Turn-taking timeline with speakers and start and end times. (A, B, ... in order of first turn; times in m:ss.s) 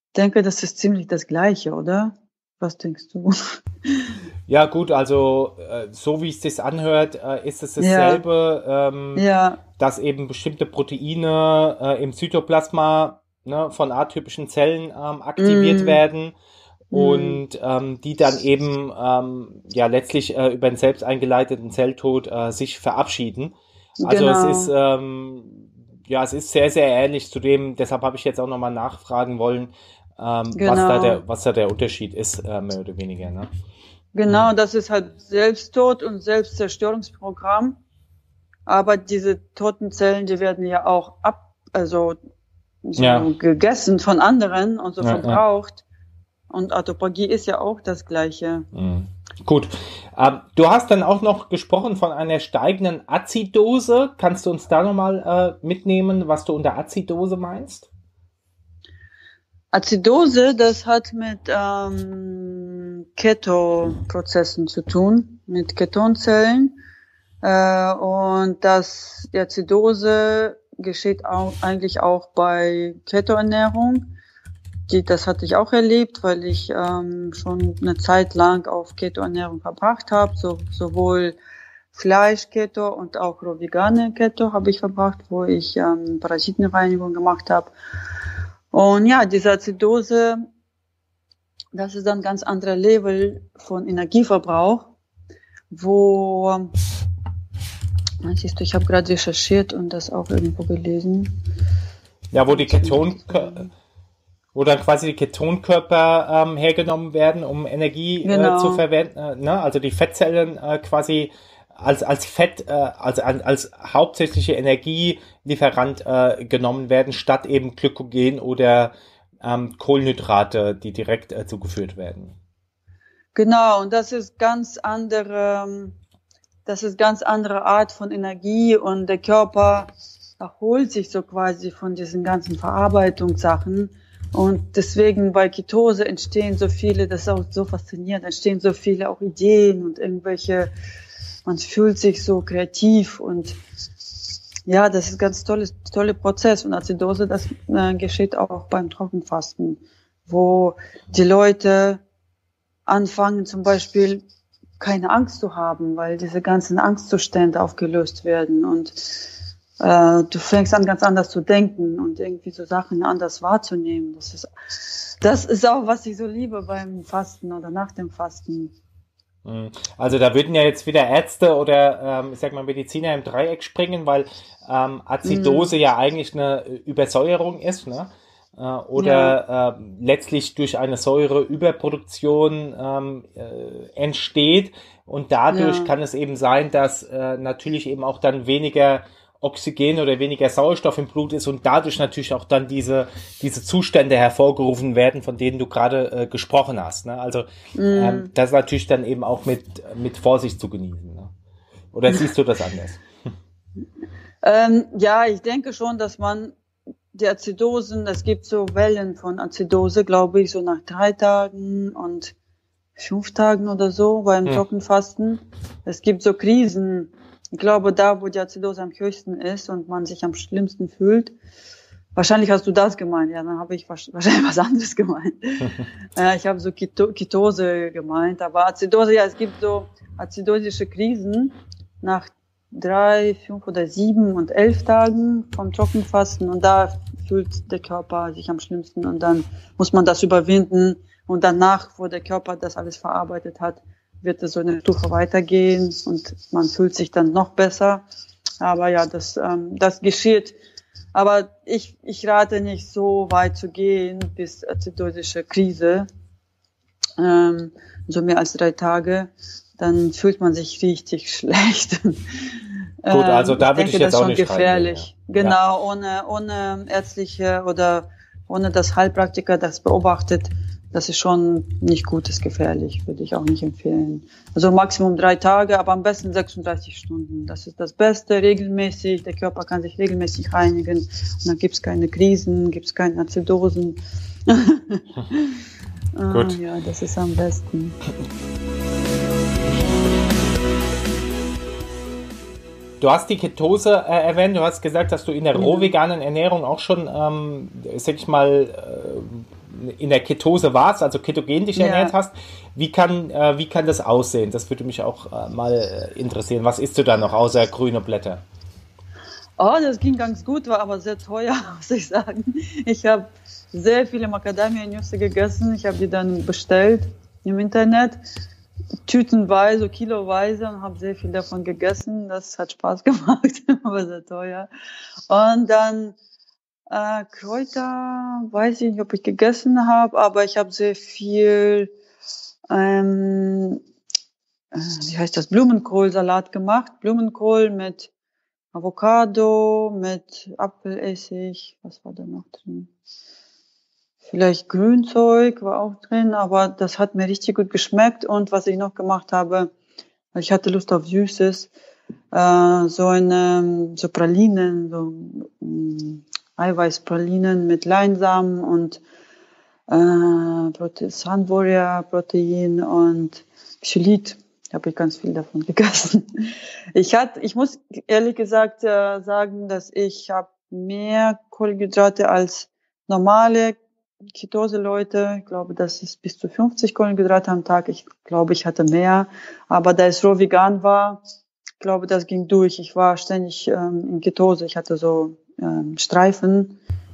0:00.1-0:04.1 A
0:04.5-0:09.2 B
0:07.8-0:08.2 A
0:09.1-0:09.6 A
0:09.8-0:16.3 B
0:15.4-0:16.0 A
0:16.9-0:17.4 A
0:16.9-0:33.5 B
0:24.0-0:24.7 A
0:30.5-0:31.2 A
0:34.1-0:37.8 A
0:38.7-0:42.2 A
0:42.9-0:45.8 A
0:43.0-0:43.3 B
0:45.0-0:45.4 B
0:46.5-0:48.7 A
0:48.7-0:57.9 B
0:59.7-1:06.7 A
1:07.4-1:14.1 A
1:14.9-1:21.4 A
1:21.9-1:27.7 A
1:28.7-1:30.4 A
1:31.7-1:34.9 A
1:35.7-1:36.7 A
1:38.2-1:41.4 A
1:42.3-1:43.7 B
1:42.5-1:43.7 A
1:44.5-2:02.4 B
1:48.2-1:48.8 A
2:03.3-2:06.0 A
2:06.6-2:20.7 A
2:21.4-2:23.6 A
2:24.7-2:32.0 A
2:32.9-2:34.2 A
2:34.8-2:39.3 A
2:39.8-2:48.7 A
2:49.4-3:21.3 B
2:55.2-2:55.7 A
2:59.0-2:59.4 A
3:05.5-3:05.9 A
3:17.7-3:18.3 A
3:21.9-3:23.0 B
3:24.4-3:26.5 A
3:27.1-3:32.3 A
3:33.0-3:41.3 A
3:42.1-4:08.0 A
4:08.6-4:10.6 A
4:11.1-4:16.1 A
4:17.2-4:45.6 A
4:23.1-4:25.6 B
4:46.2-4:48.0 A
4:46.3-4:46.6 B
4:53.0-5:08.4 B
4:55.5-4:55.9 A
5:01.8-5:02.1 A
5:09.6-5:18.2 A
5:19.0-5:24.7 A
5:25.3-5:26.2 A
5:26.9-5:31.9 A
5:32.7-5:33.8 A
5:34.7-5:38.1 A
5:38.7-5:42.9 A
5:44.2-5:49.7 A
5:50.3-5:51.7 A
5:52.3-5:59.0 A
5:59.9-6:13.8 A
6:14.3-6:21.2 A
6:21.8-6:26.8 A